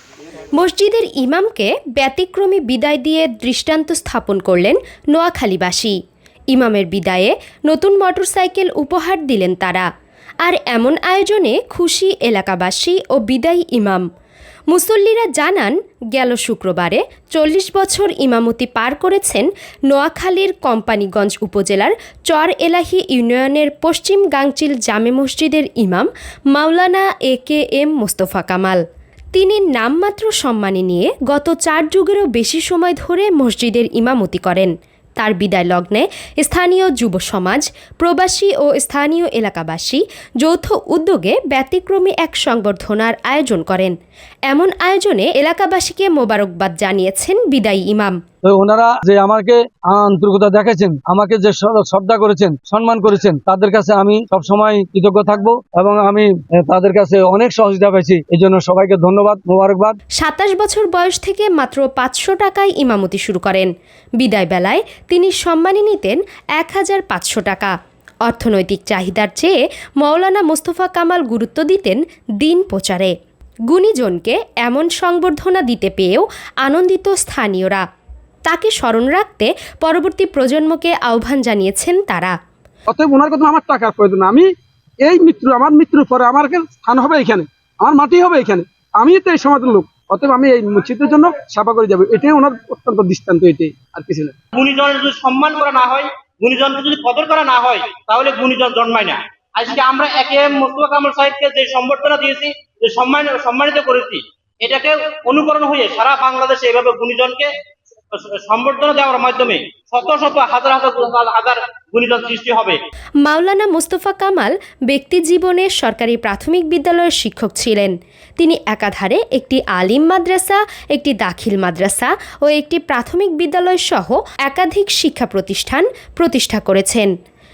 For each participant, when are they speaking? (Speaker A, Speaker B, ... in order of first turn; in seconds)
Speaker A: 0.5-6.0, 6.5-9.9, 10.4-14.1, 14.7-28.8, 29.3-43.9, 44.5-48.2, 60.2-73.1, 73.7-77.8, 78.4-82.3, 113.2-127.1
Speaker B: 48.5-60.0
Speaker C: 82.9-84.5, 85.0-94.3
Speaker D: 94.5-107.5, 108.1-112.8